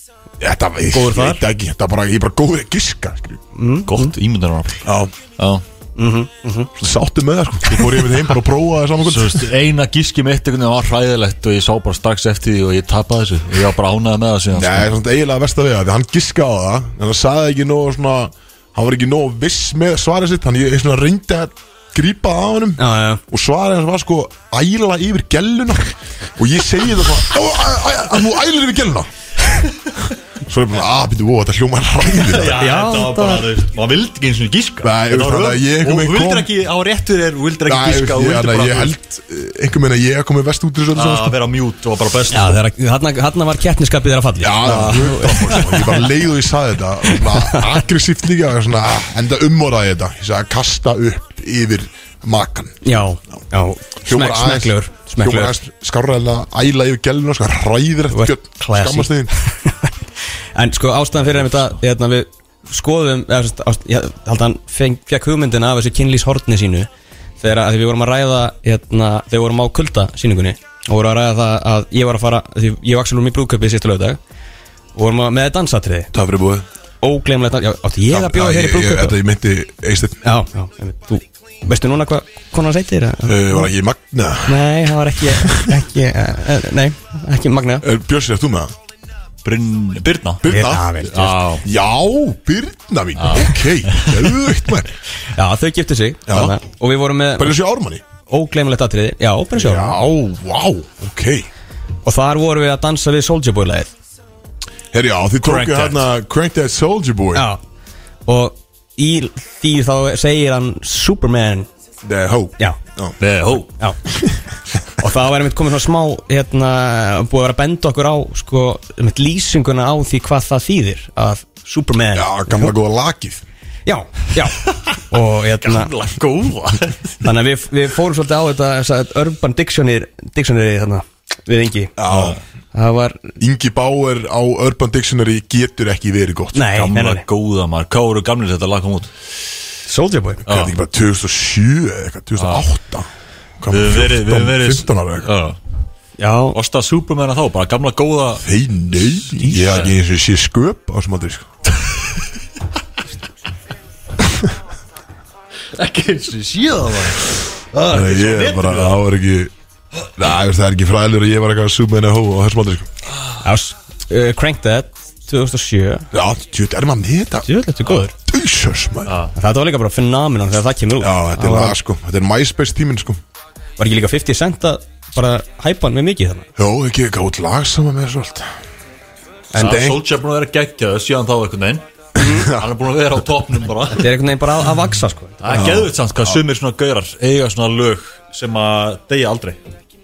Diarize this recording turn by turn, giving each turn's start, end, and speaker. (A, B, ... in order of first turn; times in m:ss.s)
0:00.4-0:03.4 A
0:00.9-0:01.4 B
0:03.6-0:04.1 B
0:03.9-0:04.9 C
0:04.8-0:05.1 A
0:05.4-0:05.6 C
0:06.0-0:06.7 B
0:06.8-0:09.5 A
0:09.0-0:15.0 C
0:14.5-0:29.1 A
0:22.8-0:23.2 B
0:30.4-0:32.6 A
0:32.1-0:39.0 C
0:32.5-0:33.5 B
0:34.8-0:36.5 A
0:37.7-0:41.4 A
0:40.9-0:42.6 C
0:42.3-0:46.1 B
0:44.4-0:52.8 A
0:44.6-0:45.6 C
0:47.1-0:47.8 B
0:52.8-0:55.6 B
0:54.0-0:59.3 A
0:58.1-0:59.9 B
1:00.6-1:06.9 B
1:07.4-1:14.2 B
1:15.0-1:16.1 B
1:16.1-1:16.7 A
1:17.0-1:19.2 B
1:18.1-1:20.2 A
1:20.2-1:23.7 B
1:23.3-1:25.8 A
1:24.5-1:27.9 B
1:27.8-1:28.7 A
1:29.4-1:30.5 C
1:30.4-1:31.0 A
1:30.5-1:31.4 B
1:31.0-1:31.7 C
1:31.6-1:35.0 A
1:33.2-1:34.2 C
1:35.3-1:37.6 B
1:36.3-1:36.6 A
1:37.4-1:38.0 A
1:38.3-1:40.0 B
1:39.6-1:41.5 A
1:42.0-1:43.9 B
1:44.9-1:47.5 A
1:45.4-1:46.1 C
1:47.3-1:47.6 B
1:48.3-1:51.7 B
1:52.0-1:53.2 A
1:53.2-1:53.7 C
1:55.0-2:02.7 B
2:02.1-2:03.4 A
2:03.9-2:05.9 B
2:05.6-2:07.0 C
2:07.2-2:12.0 B
2:12.0-2:12.4 A
2:12.1-2:12.4 C
2:12.7-2:13.3 B
2:13.4-2:16.6 A
2:16.5-2:17.2 B
2:16.7-2:19.1 C
2:19.9-2:20.4 B
2:20.5-2:20.7 C
2:20.5-2:23.1 A
2:22.4-2:22.7 C
2:23.6-2:25.3 A
2:23.7-2:25.6 C
2:26.2-2:26.6 B
2:26.5-2:29.9 C
2:28.4-2:31.5 A
2:35.8-2:39.0 C
2:37.9-2:39.5 A
2:40.2-2:42.9 A
2:43.4-2:46.1 B
2:46.1-2:47.5 A
2:47.4-2:48.1 B
2:48.2-2:49.1 A
2:49.0-2:49.3 C
2:49.4-2:51.8 B
2:51.0-2:53.2 A
2:53.8-2:56.5 B
2:56.6-2:58.5 A
2:59.5-2:59.9 B
2:59.6-3:01.9 C
2:59.6-3:00.0 A
3:02.2-3:02.5 B
3:02.2-3:02.7 A
3:02.5-3:04.1 C
3:04.0-3:05.6 B
3:05.4-3:09.6 C
3:05.5-3:06.4 A